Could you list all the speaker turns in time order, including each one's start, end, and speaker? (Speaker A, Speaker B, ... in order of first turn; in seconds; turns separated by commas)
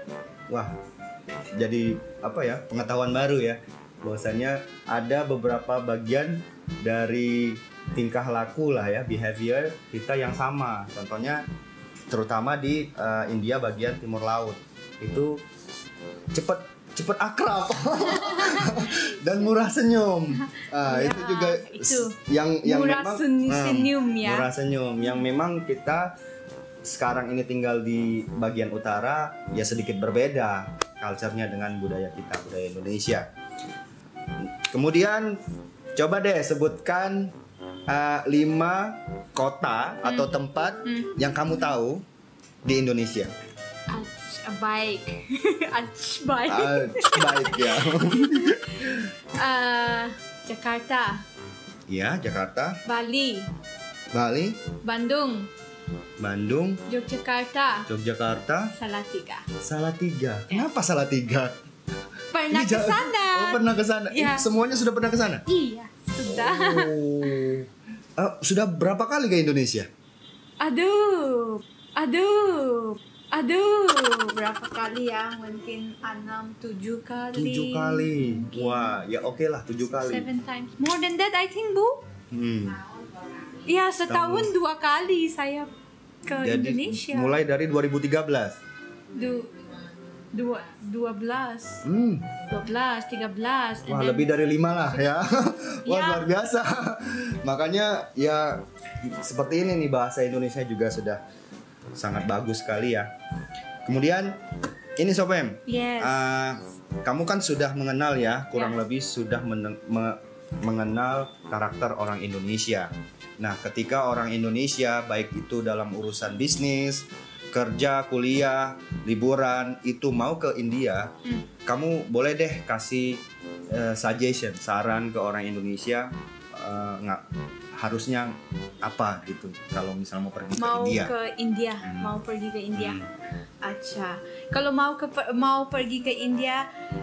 Speaker A: 1.6-11.4, Speaker A: 12.1-15.4, Speaker A: 16.3-26.1, Speaker B: 18.1-19.1, Speaker B: 20.5-24.5, Speaker A: 26.8-33.3, Speaker A: 34.7-35.4, Speaker A: 36.0-37.3, Speaker A: 37.9-42.0, Speaker B: 40.0-40.3, Speaker B: 40.8-41.2, Speaker A: 42.6-43.3, Speaker B: 43.9-51.2, Speaker A: 46.5-49.1, Speaker A: 51.9-52.8, Speaker B: 52.9-53.5, Speaker A: 54.1-54.6, Speaker B: 54.8-55.5, Speaker A: 56.2-56.8, Speaker B: 56.9-57.9, Speaker A: 57.9-58.7, Speaker B: 58.7-59.5, Speaker A: 59.6-61.5, Speaker B: 62.3-64.5, Speaker A: 62.5-65.4, Speaker B: 65.5-67.5, Speaker A: 66.2-69.9, Speaker B: 70.6-79.0, Speaker A: 77.3-80.3, Speaker B: 79.8-82.0, Speaker A: 82.3-82.8, Speaker B: 83.6-85.7, Speaker A: 84.1-84.5, Speaker B: 86.2-87.3, Speaker A: 86.4-88.6, Speaker B: 89.1-89.5, Speaker B: 90.3-91.8, Speaker A: 91.8-92.3, Speaker B: 92.4-94.3, Speaker A: 93.8-101.2, Speaker B: 95.8-96.3, Speaker A: 102.0-103.1, Speaker A: 103.8-104.4, Speaker A: 105.0-121.1, Speaker B: 105.7-106.2, Speaker B: 108.5-108.8, Speaker A: 121.7-127.2, Speaker A: 127.8-131.1, Speaker B: 130.6-133.0, Speaker A: 131.8-132.1, Speaker A: 132.7-133.1, Speaker B: 133.6-136.7